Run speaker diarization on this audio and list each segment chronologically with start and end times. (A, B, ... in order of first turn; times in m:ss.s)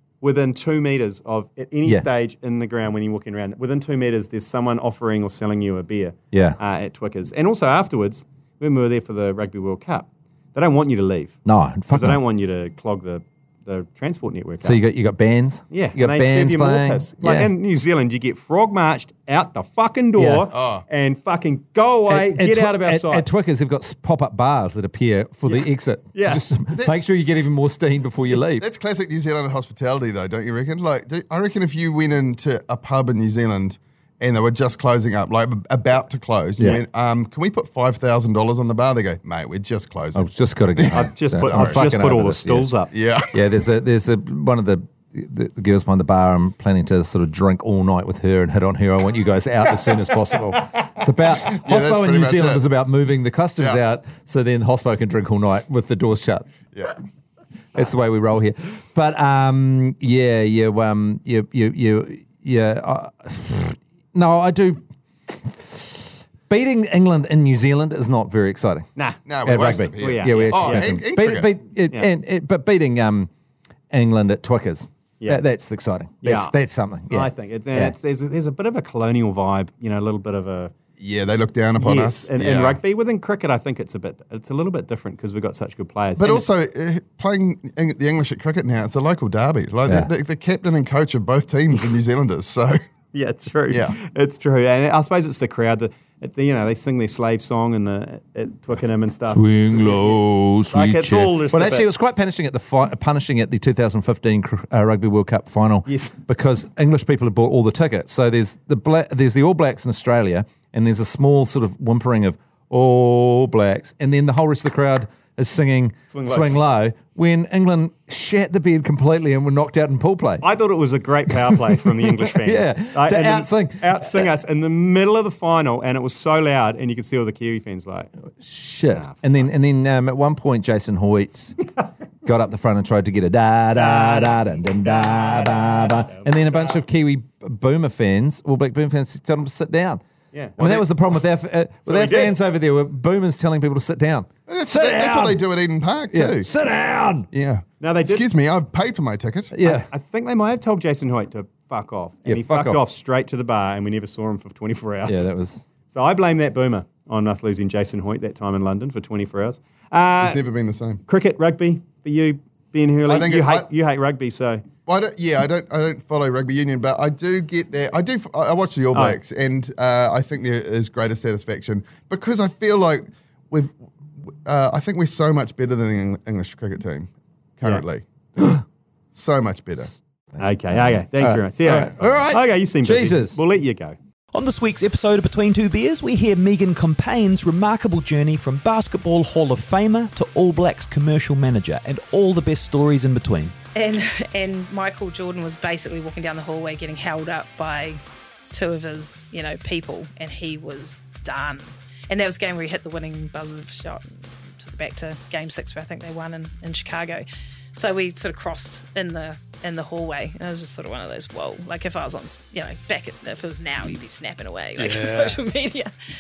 0:00.2-0:11.4 A
0:06.3-0:06.6 B
0:11.4-0:12.2 B
0:11.9-0:14.8 A
0:14.6-0:17.5 B
0:15.7-0:23.3 A
0:20.2-0:20.5 B
0:20.5-0:20.8 C
0:22.1-0:28.7 B
0:25.5-0:26.5 A
0:26.7-0:27.0 C
0:28.5-0:41.8 C
0:36.6-0:36.8 B
0:40.2-0:42.7 B
0:40.9-0:42.9 A
0:42.9-0:43.4 C
0:43.3-0:56.5 B
0:51.5-0:52.7 C
0:57.8-1:08.9 B
1:09.3-1:11.5 C
1:09.4-1:13.3 B
1:09.9-1:10.9 A
1:13.9-1:18.0 B
1:16.2-1:16.5 A
1:17.1-1:20.7 A
1:21.0-1:22.8 C
1:21.8-1:26.5 A
1:26.2-1:32.8 C
1:33.1-1:41.9 A
1:33.7-1:34.0 C
1:39.3-2:00.4 B
1:45.9-1:46.2 A
1:56.1-1:56.6 A
2:00.4-2:08.1 A
2:02.2-2:04.3 B
2:08.4-2:11.7 B
2:08.9-2:09.5 A
2:12.2-2:20.0 B
2:13.7-2:16.6 A
2:20.3-2:20.6 A
2:20.6-2:25.4 B
2:21.9-2:22.4 A
2:24.5-2:26.5 C
2:26.1-2:27.3 B
2:27.3-2:29.5 C
2:27.8-2:28.3 A
2:29.5-2:29.9 B
2:29.6-2:35.3 A
2:32.2-2:32.8 B
2:35.0-2:35.7 B
2:35.9-2:40.4 A
2:40.2-2:41.0 C
2:41.1-2:44.6 A
2:43.1-2:43.7 C
2:44.9-2:53.8 C
2:48.9-2:49.2 A
2:54.4-2:58.6 C
2:59.1-2:59.9 C
3:00.3-3:03.4 B
3:00.4-3:04.0 A
3:04.3-3:13.5 D
3:13.8-3:18.0 E
3:18.5-3:27.2 E
3:27.8-3:35.9 E
3:34.8-3:35.3 D